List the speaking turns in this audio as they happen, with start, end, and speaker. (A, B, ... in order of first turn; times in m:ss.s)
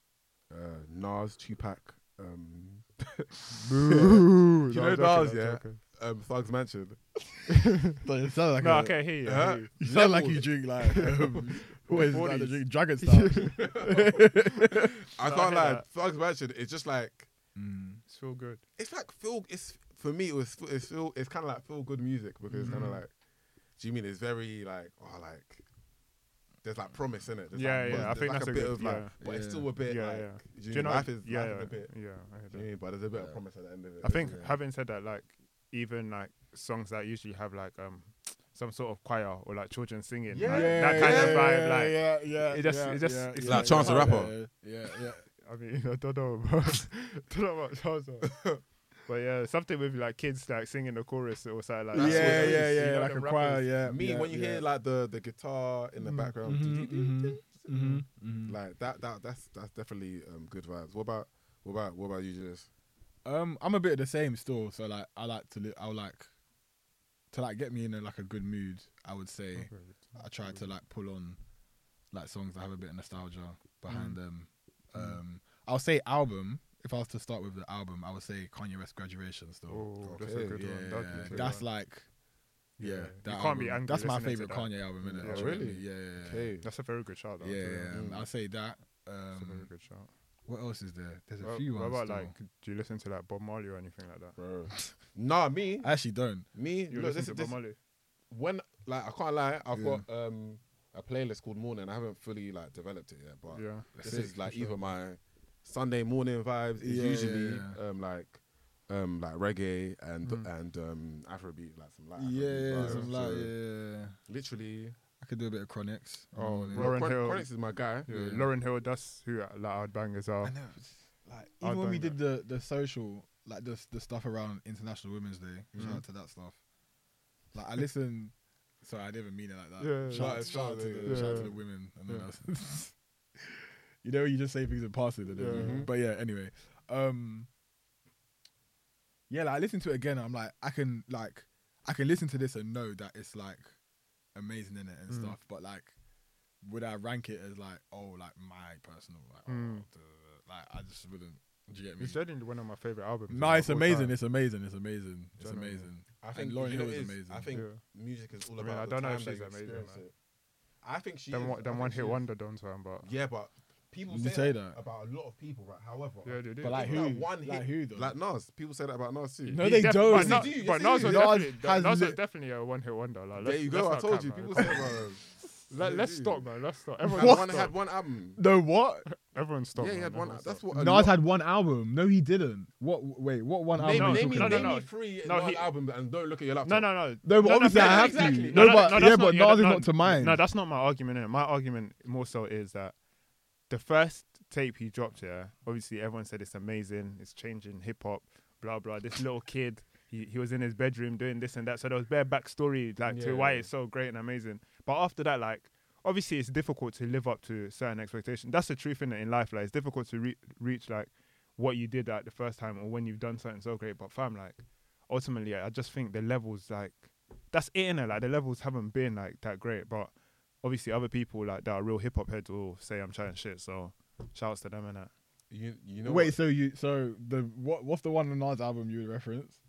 0:00.5-0:03.2 A
0:03.6-0:05.8 B
0:03.7-0:04.3 C
0:03.9-0:07.2 A
0:08.0-0:14.9 C
0:08.6-0:09.7 B
0:09.2-0:11.0 A
0:10.9-0:11.2 B
0:11.8-0:13.9 B
0:13.6-0:14.1 A
0:15.1-0:17.3 A
0:15.2-0:15.9 B
0:17.6-0:18.0 C
0:18.1-0:18.6 B
0:18.8-0:23.1 A
0:22.5-0:23.0 C
0:22.6-0:23.0 B
0:23.8-0:25.6 A
0:26.6-0:34.4 A
0:27.5-0:29.2 B
0:27.9-0:28.4 C
0:29.2-0:29.7 C
0:29.8-0:32.7 B
0:33.1-0:33.4 C
0:34.0-0:34.6 C
0:34.0-0:44.3 B
0:40.3-0:41.5 A
0:40.4-0:45.3 C
0:43.4-0:44.4 A
0:45.4-0:53.9 B
0:51.9-0:54.6 C
0:51.9-0:52.8 A
0:53.8-0:57.8 A
0:56.0-0:56.3 B
0:56.4-0:58.6 C
0:57.7-0:58.1 B
0:58.4-1:02.7 A
1:03.2-1:06.3 C
1:07.3-1:11.4 C
1:09.5-1:10.7 B
1:12.1-1:22.1 C
1:13.9-1:14.2 B
1:19.7-1:21.7 B
1:20.0-1:21.6 A
1:22.8-1:25.9 B
1:22.8-1:26.5 C
1:25.0-1:26.7 A
1:26.6-1:28.0 B
1:27.4-1:29.8 C
1:27.9-1:28.3 A
1:29.3-1:30.1 B
1:30.4-1:32.4 C
1:31.4-1:34.4 B
1:34.4-1:37.7 A
1:35.8-1:36.5 C
1:36.9-1:37.8 B
1:38.3-1:53.7 A
1:39.7-1:40.0 C
1:43.5-1:43.9 B
1:43.9-1:45.0 C
1:46.8-1:47.8 C
1:50.2-1:50.5 B
1:52.2-1:54.2 C
1:52.8-1:53.1 B
1:54.2-1:55.0 A
1:55.2-1:57.2 C
1:56.3-2:00.8 B
1:56.7-1:58.1 A
1:58.1-1:58.5 C
2:00.4-2:06.6 C
2:01.6-2:02.2 B
2:05.8-2:06.0 B
2:07.5-2:17.5 C
2:09.8-2:12.3 B
2:10.1-2:11.5 A
2:15.4-2:15.9 B
2:15.5-2:15.9 A
2:19.3-2:23.8 C
2:24.3-2:25.9 C
2:25.1-2:25.4 B
2:26.6-2:32.2 C
2:29.5-2:29.9 B
2:32.0-2:34.2 B
2:33.3-2:37.6 C
2:35.4-2:35.9 B
2:36.2-2:40.1 A
2:37.5-2:37.8 B
2:38.6-2:40.0 B
2:40.8-2:42.4 A
2:41.3-2:43.1 B
2:43.0-2:51.4 A
2:44.1-2:44.8 C
2:46.2-2:47.3 B
2:46.6-2:48.2 C
2:49.4-2:52.2 C
2:49.6-2:54.9 B
2:53.4-2:56.5 A
2:55.7-2:57.7 B
2:57.0-2:58.4 A
2:57.1-2:57.7 C
2:58.4-2:59.1 C
2:59.1-3:00.6 B
2:59.8-3:01.2 A
3:00.7-3:04.8 C
3:03.8-3:09.1 A
3:03.9-3:05.8 B
3:06.6-3:13.0 B
3:07.2-3:10.4 C
3:13.6-3:45.1 B
3:23.0-3:23.7 A
3:45.5-3:46.4 A
3:46.0-3:49.6 C